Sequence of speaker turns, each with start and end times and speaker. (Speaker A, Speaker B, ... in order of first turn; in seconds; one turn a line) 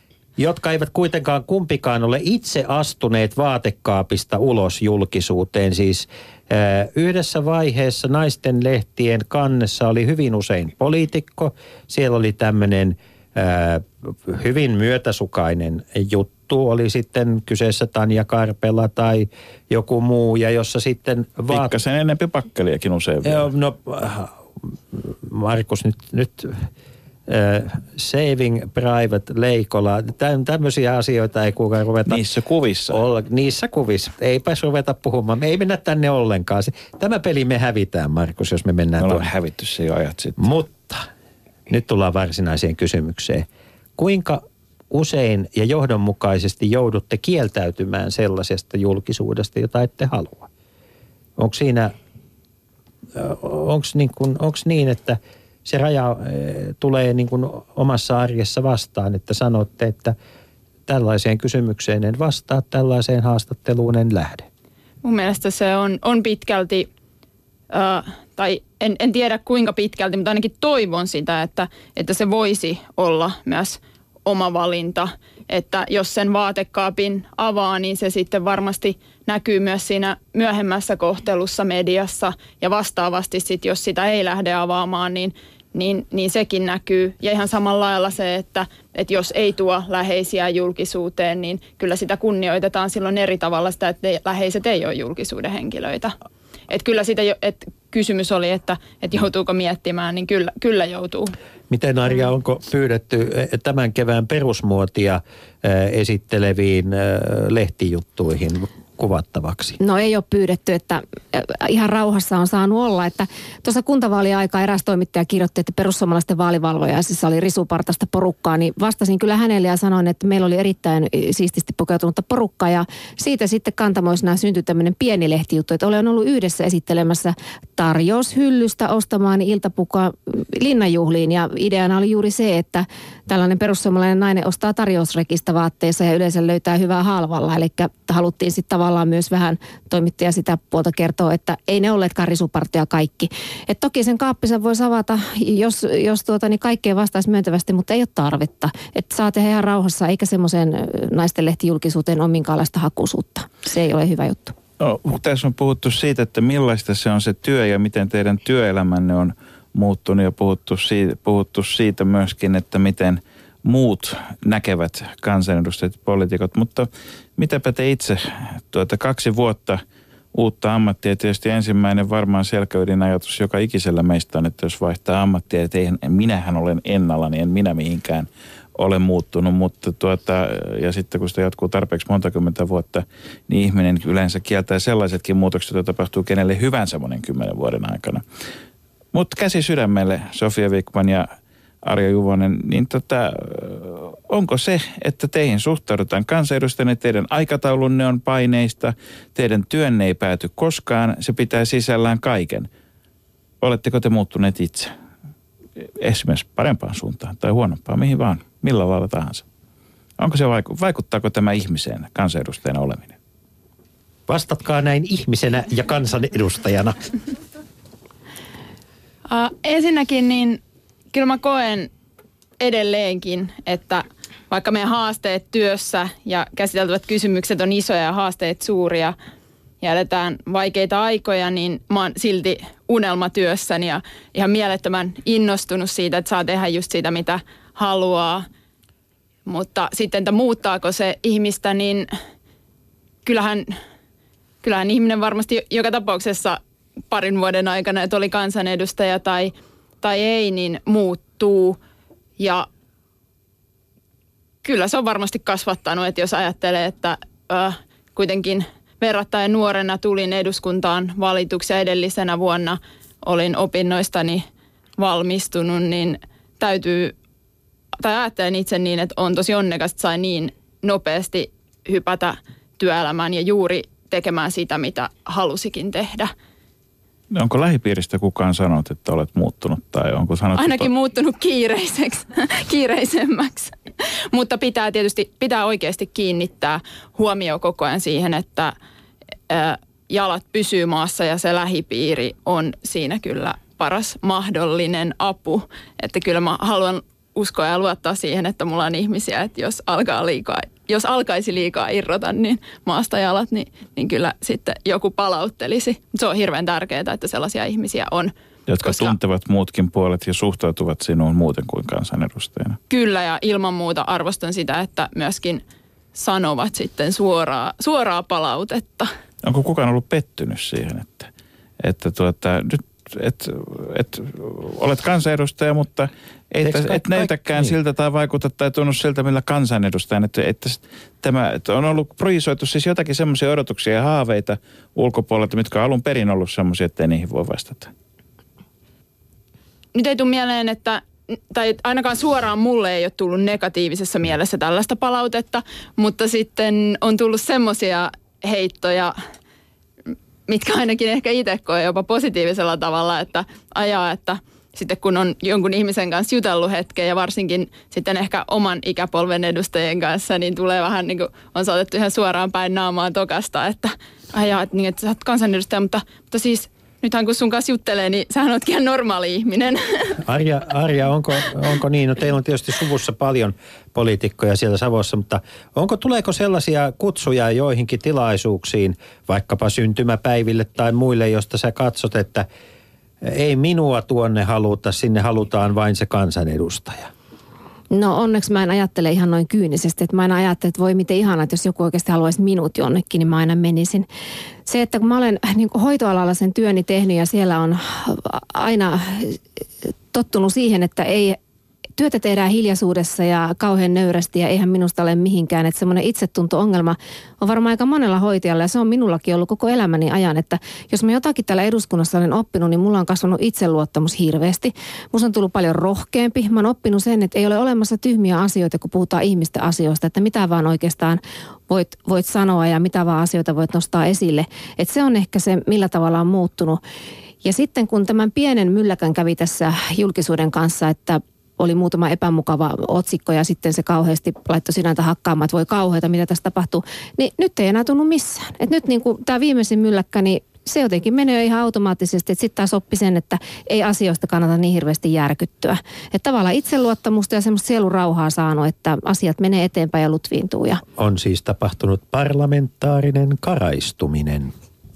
Speaker A: 0.4-21.7
Speaker B: 21.5-23.5
Speaker A: 23.2-26.7
Speaker A: 27.3-32.3
Speaker B: 32.1-33.0
Speaker A: 32.9-39.3
Speaker B: 39.0-40.5
Speaker A: 40.4-41.1
Speaker A: 41.7-43.5
Speaker A: 44.0-50.5
Speaker A: 51.4-51.9
Speaker A: 53.1-60.1
Speaker A: 60.9-64.5
Speaker C: 65.0-66.9
Speaker C: 67.7-96.1
Speaker C: 96.7-101.3
Speaker A: 101.7-109.8
Speaker D: 109.8-154.5
Speaker B: 154.8-169.8
Speaker B: 170.3-188.2
Speaker B: 189.1-191.3
Speaker B: 191.8-202.7
Speaker B: 203.6-204.9
Speaker B: 205.8-209.4
Speaker B: 210.2-213.2
Speaker A: 214.3-217.1
Speaker C: 219.2-220.6
Speaker C: 221.1-221.9
Speaker C: 222.6-229.2
Speaker C: 229.8-238.4
Speaker C: 239.4-242.1
Speaker C: 243.2-243.7
Speaker C: 244.6-251.8
Speaker C: 252.4-252.7
Speaker C: 254.6-264.4
Speaker C: 265.0-267.1
Speaker C: 268.0-276.3
Speaker B: 277.3-280.9
Speaker C: 280.6-283.7
Speaker C: 284.3-288.7
Speaker C: 289.5-309.1
Speaker B: 308.7-312.8
Speaker C: 312.9-315.6
Speaker C: 316.1-319.1
Speaker B: 319.4-337.9
Speaker A: 326.6-327.8
Speaker C: 339.9-349.1
Speaker C: 350.5-370.2
Speaker A: 370.2-382.4
Speaker A: 383.2-387.1
Speaker D: 387.9-394.1
Speaker D: 394.6-399.4
Speaker D: 400.1-401.4
Speaker D: 402.0-426.8
Speaker D: 427.4-450.8
Speaker A: 451.0-454.5